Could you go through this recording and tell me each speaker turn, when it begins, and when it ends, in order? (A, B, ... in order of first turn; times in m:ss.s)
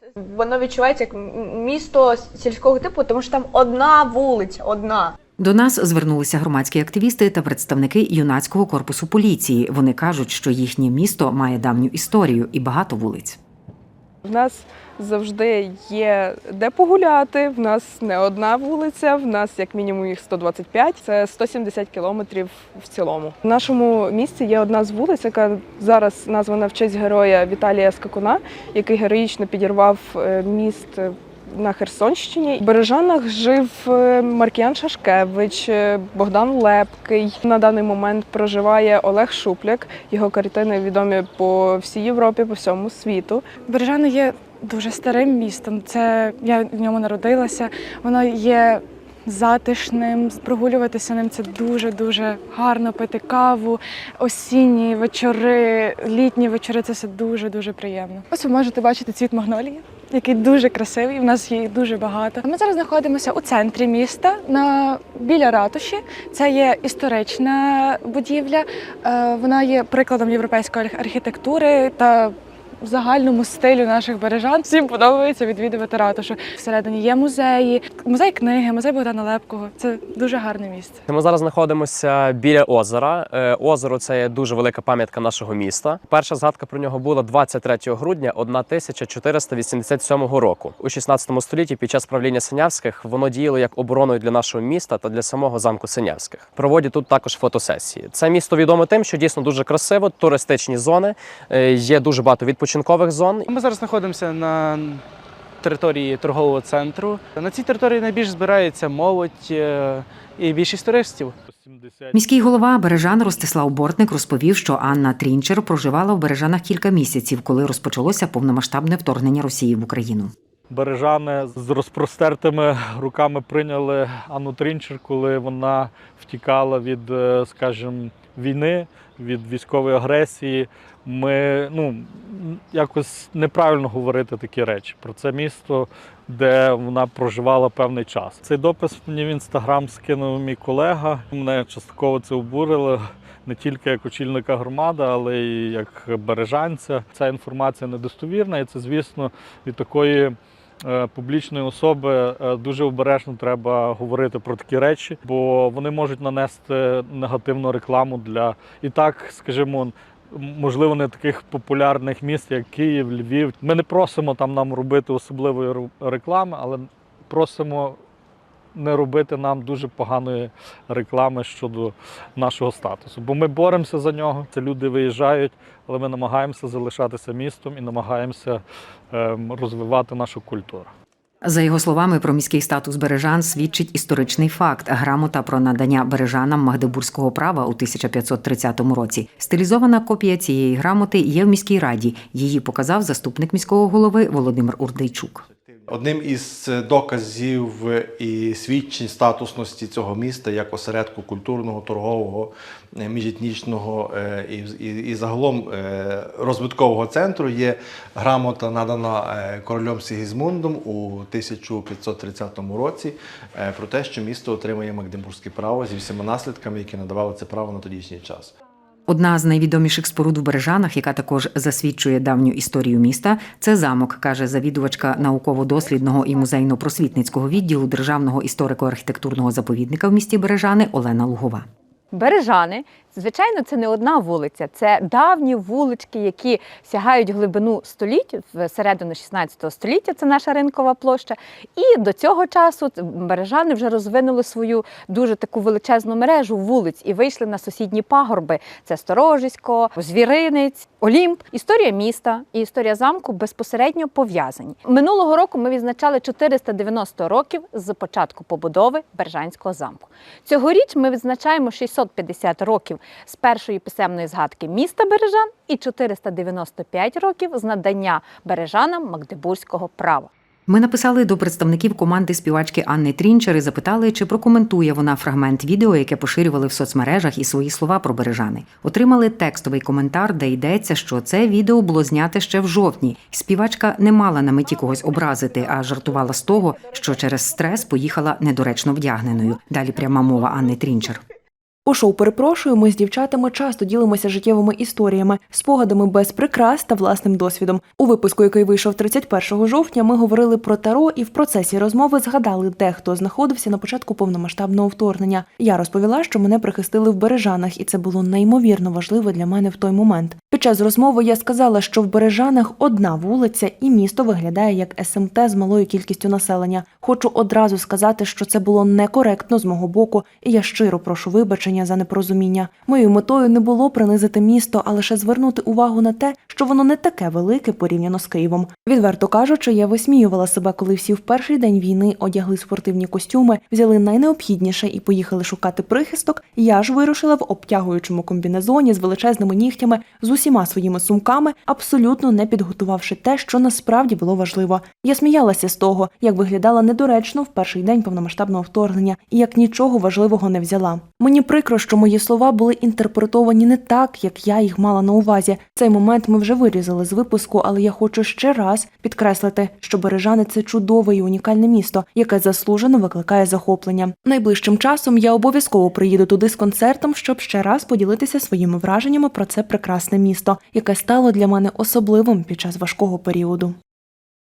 0:00.2-0:05.1 A
0:05.4-0:13.4 B
0:14.2-0:43.4 C
0:43.6-1:21.0 D
1:21.1-1:43.4 E
1:43.5-1:45.0 F
1:45.6-1:51.3 F
1:51.5-1:53.2 G
1:52.1-2:00.3 B
2:00.7-2:48.0 G
2:48.7-3:00.9 G
3:01.4-3:15.4 B
3:15.9-3:38.5 H
3:39.1-3:51.6 B
3:52.1-4:30.3 I
4:30.7-4:51.2 B
4:51.8-6:13.7 J